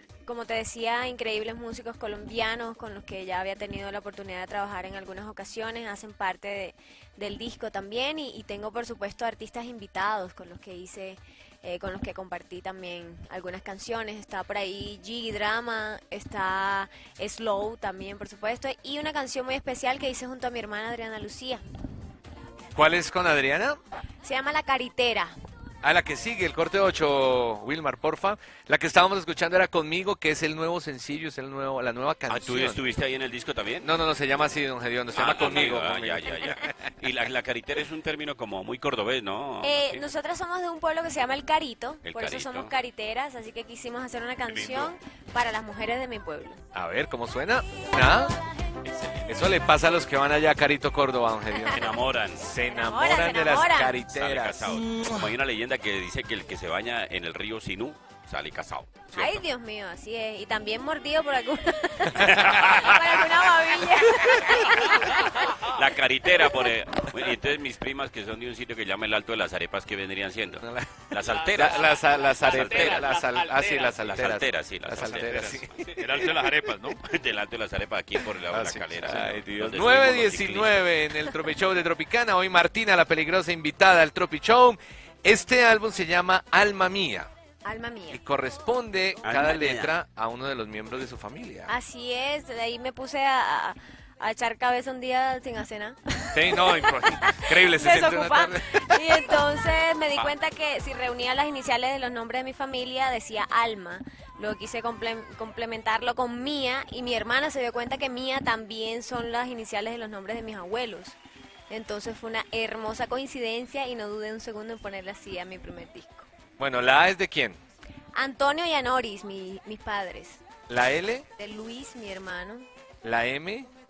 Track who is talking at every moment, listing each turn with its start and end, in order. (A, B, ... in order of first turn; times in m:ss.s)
0:00.2-0:21.6 A
0:22.8-0:23.8 B
0:24.2-0:25.3 A
0:25.8-0:32.8 B
0:32.3-0:33.9 C
0:33.8-0:36.7 B
0:35.1-0:40.1 C
0:39.6-0:46.6 A
0:42.0-0:42.7 C
0:44.5-0:44.8 C
0:46.8-0:48.4 B
0:48.8-0:49.2 C
0:49.3-0:54.7 B
0:51.7-0:52.5 C
0:52.7-0:54.0 A
0:54.0-0:59.4 C
0:59.1-1:05.4 A
1:02.2-1:03.0 C
1:05.4-1:13.1 C
1:10.6-1:15.9 B
1:12.5-1:14.0 D
1:14.0-1:15.4 C
1:15.3-1:17.0 D
1:17.0-1:20.8 C
1:18.5-1:27.3 B
1:27.6-1:28.2 A
1:28.1-1:31.7 B
1:29.2-1:29.9 C
1:31.7-1:51.2 A
1:36.3-1:39.1 B
1:51.7-1:56.3 A
1:56.6-1:57.6 B
1:58.2-2:00.4 A
2:00.7-2:01.3 B
2:01.4-2:02.7 A
2:03.0-2:03.7 B